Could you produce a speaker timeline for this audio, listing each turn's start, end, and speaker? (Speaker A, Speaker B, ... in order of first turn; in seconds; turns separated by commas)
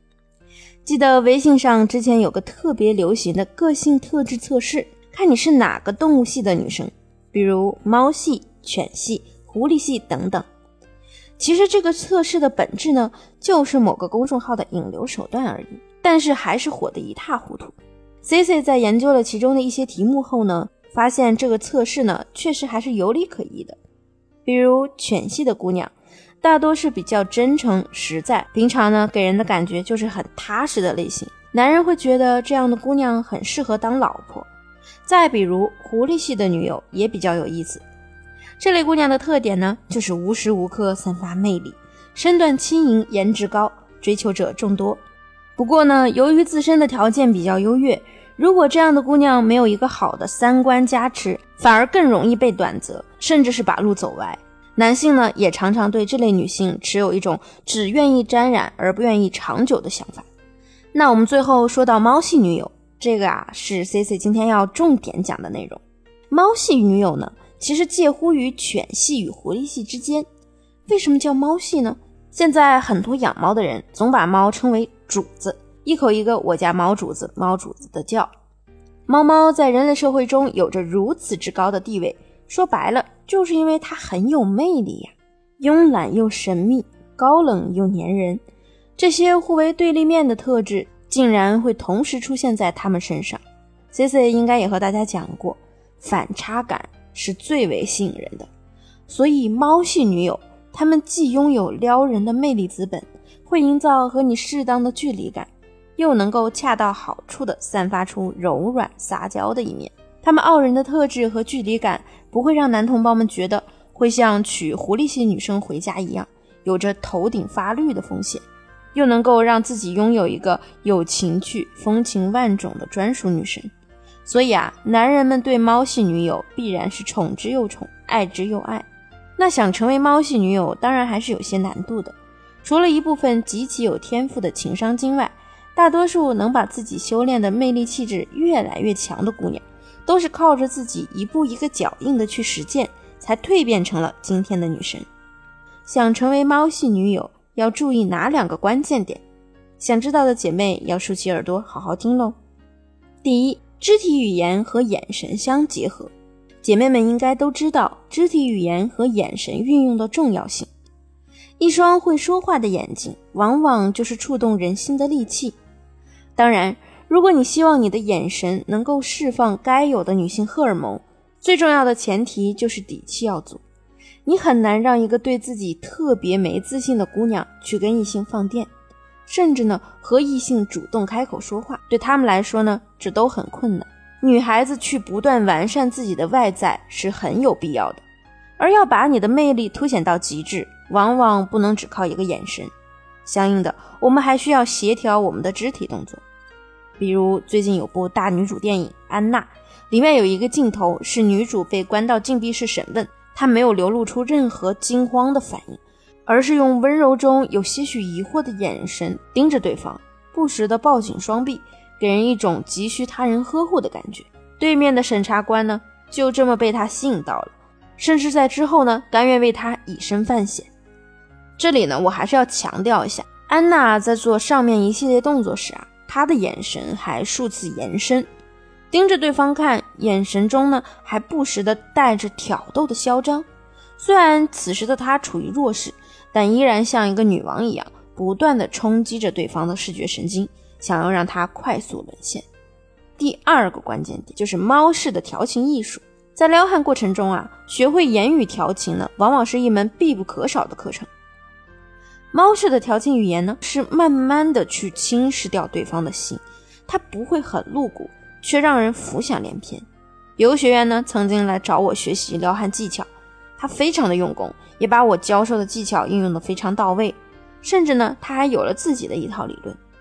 Speaker A: 0.8-10.4, Speaker A: 11.4-23.8, Speaker A: 24.4-34.5, Speaker A: 35.0-37.8, Speaker A: 38.6-45.0, Speaker A: 45.6-60.3, Speaker A: 60.9-70.2, Speaker A: 70.9-78.3, Speaker A: 79.1-88.4, Speaker A: 89.0-93.4, Speaker A: 93.9-98.5, Speaker A: 99.1-118.4, Speaker A: 118.9-123.7, Speaker A: 124.2-128.8, Speaker A: 129.4-145.1, Speaker A: 145.8-149.2, Speaker A: 149.8-152.3, Speaker A: 153.2-156.1, Speaker A: 156.6-160.7, Speaker A: 161.6-165.6, Speaker A: 166.3-173.6, Speaker A: 174.2-178.7, Speaker A: 179.3-188.0, Speaker A: 188.6-192.7, Speaker A: 193.2-196.2, Speaker A: 197.0-220.7, Speaker A: 221.6-228.3, Speaker A: 228.9-233.4, Speaker A: 234.0-242.4, Speaker A: 243.2-251.1, Speaker A: 252.3-259.9, Speaker A: 260.4-269.8